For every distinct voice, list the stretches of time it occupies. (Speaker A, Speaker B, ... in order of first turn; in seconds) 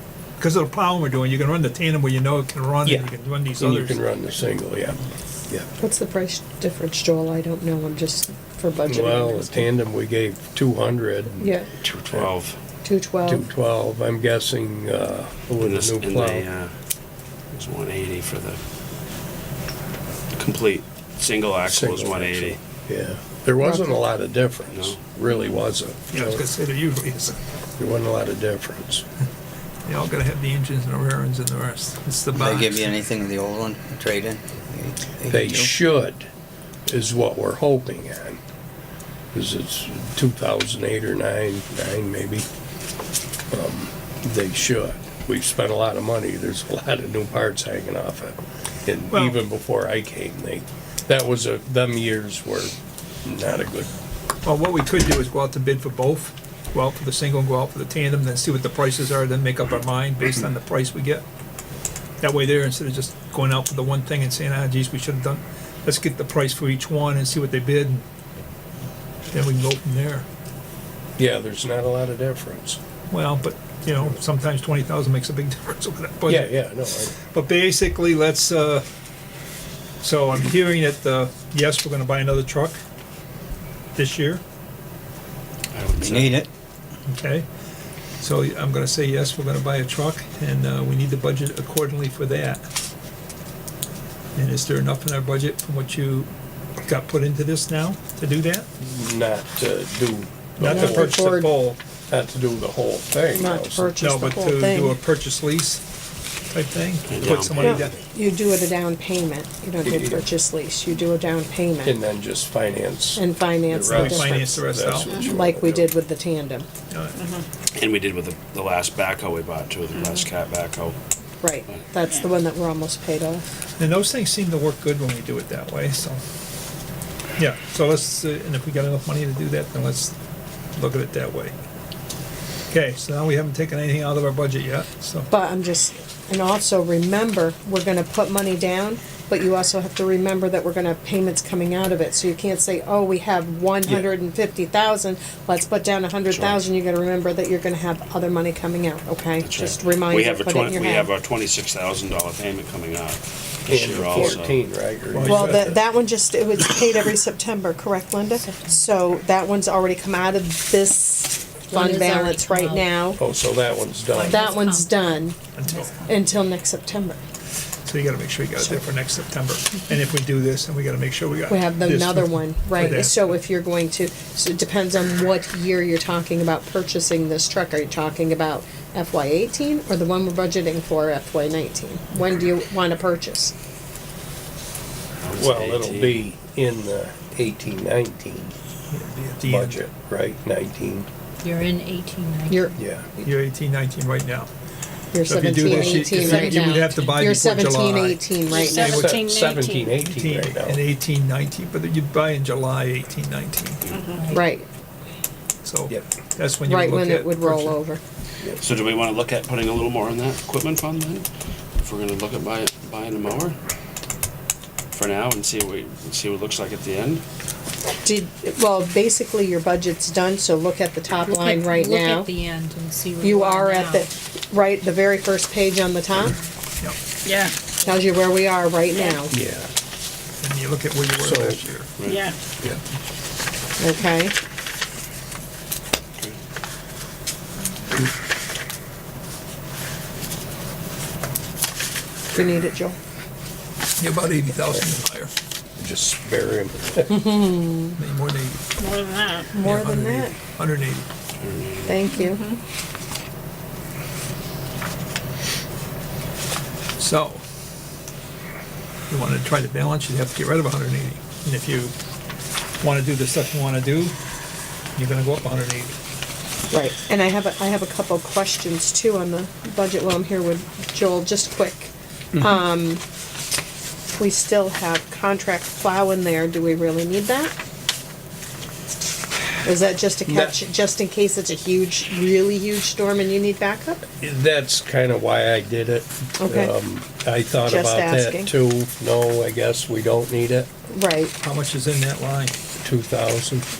Speaker A: 0.4-4.0, 26.1-27.4, 29.9-33.0, 49.1-49.4, 54.4-61.2, 62.2-68.0, 69.3-70.2, 73.1-78.8, 80.0-82.8, 84.0-84.4, 87.1-87.5, 88.2-92.7, 94.3-96.3, 96.8-98.7, 100.6-101.8, 104.0-105.8, 106.5-107.9, 113.8-115.1, 123.8-126.2, 127.4-130.1, 130.7-131.5, 132.7-135.3, 155.1-155.7, 165.5-166.0, 167.8-173.3, 188.9-189.8, 193.2-194.5, 195.2-199.0, 200.0-203.8, 205.6-207.8, 230.4-231.9, 244.0-245.3, 248.0-248.6, 249.6-251.1, 257.0-257.4, 259.1-261.9, 262.8-264.1, 264.9-265.9, 291.4-292.5
Speaker B: 2.8-5.7, 8.9-12.3, 13.2-16.5, 21.6-26.4, 27.8-29.0, 35.2-36.3, 36.9-38.4, 39.3-42.5, 43.5-52.7, 53.2-53.9, 71.2-72.8, 76.2-77.1, 98.8-101.2, 102.1-103.9, 109.8-110.3, 111.8-115.9, 153.7-155.8, 163.2-164.5, 185.3-188.5, 189.4-191.1, 192.8-193.1, 195.6-196.3, 198.7-200.8, 208.4-208.7, 229.3-229.7, 231.2-231.6, 245.8-247.2, 280.3-280.6, 284.2-290.7, 292.8-293.7
Speaker C: 5.8-9.7, 11.4-11.7, 12.8-13.4, 100.6-101.5, 103.3-105.0, 107.6-112.0, 113.2-114.4, 115.3-116.7, 121.4-123.5, 135.3-151.1, 155.2-163.2, 164.2-165.4, 166.0-167.2, 171.5-183.5, 192.5-193.3, 195.1-199.1, 204.3-204.7, 206.7-208.0, 218.0-222.3, 223.2-226.4, 227.8-229.3, 233.8-234.3, 242.3-243.0, 247.1-248.0, 249.5-250.3, 251.8-252.4, 266.7-273.0, 274.1-277.5, 279.6-284.0, 286.4-286.7, 287.6-288.5, 290.9-291.3
Speaker D: 11.8-12.6, 15.6-16.7, 17.5-18.6, 20.3-22.6, 24.7-25.0, 85.7-86.4, 107.1-107.9, 117.7-121.0, 146.3-146.7, 149.4-154.6, 185.2-186.2, 208.6-211.3, 211.8-213.6, 214.9-217.2, 251.4-252.1
Speaker E: 32.3-35.7, 86.0-86.5
Speaker F: 117.2-117.4, 198.5-200.0, 227.2-227.5, 228.9-229.2, 232.0-232.3, 248.8-249.5, 252.2-252.6
Speaker G: 158.3-158.9, 161.7-163.0, 164.1-165.0, 165.7-165.9, 191.4-192.8, 195.8-197.2, 204.2-204.4, 221.2-224.1